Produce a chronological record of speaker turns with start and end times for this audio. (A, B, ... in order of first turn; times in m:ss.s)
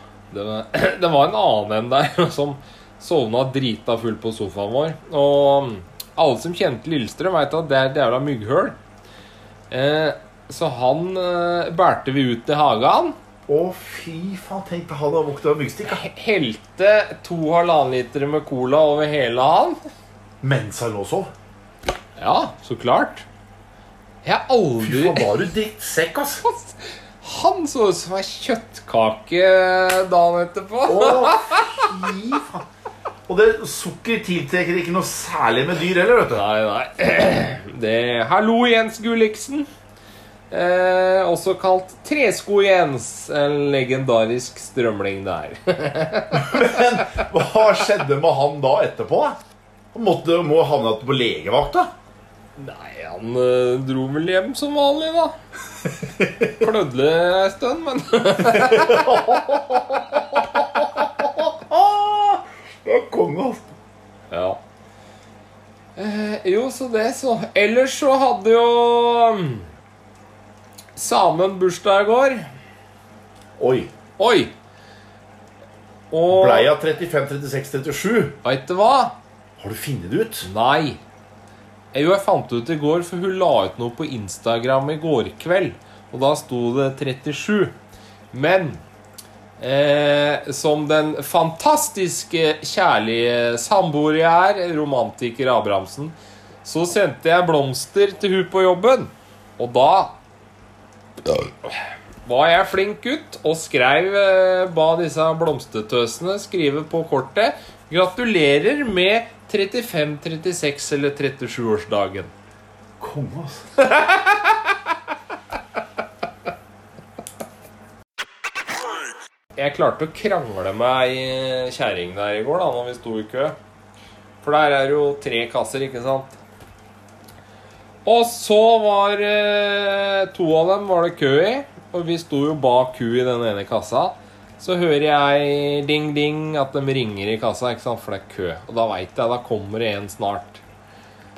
0:00.3-0:08.8 A
0:09.7-0:13.2 A
0:13.5-0:16.0 B
0:15.8-0:19.8 A
0:20.4-0:21.3 B
0:22.2-0:23.3 A
0:24.2-0:25.3 A
0:24.8-0:26.4 B
0:26.4-0:32.1 A
0:30.9-0:32.7 B
0:33.3-0:36.4 B
0:36.3-0:39.7 A
0:40.5-0:46.9 A
0:46.3-0:49.4 B
0:49.9-0:51.9 B
0:52.6-0:55.4 A
0:56.0-0:56.6 B
0:56.6-0:59.3 A
0:58.4-1:03.7 B
1:04.3-1:04.6 A
1:06.0-1:09.7 A
1:11.0-1:12.4 A
1:13.6-1:13.9 B
1:14.2-1:14.5 A
1:16.1-1:16.7 A
1:16.3-1:18.4 B
1:18.4-1:19.2 A
1:19.6-1:20.5 B
1:20.4-1:21.0 A
1:21.9-1:27.8 A
1:28.3-1:28.8 A
1:29.6-1:40.1 A
1:41.2-1:52.3 A
1:53.0-1:53.6 B
1:53.8-1:54.8 A
1:59.6-2:03.6 A
2:04.4-2:06.4 A
2:08.0-2:20.6 A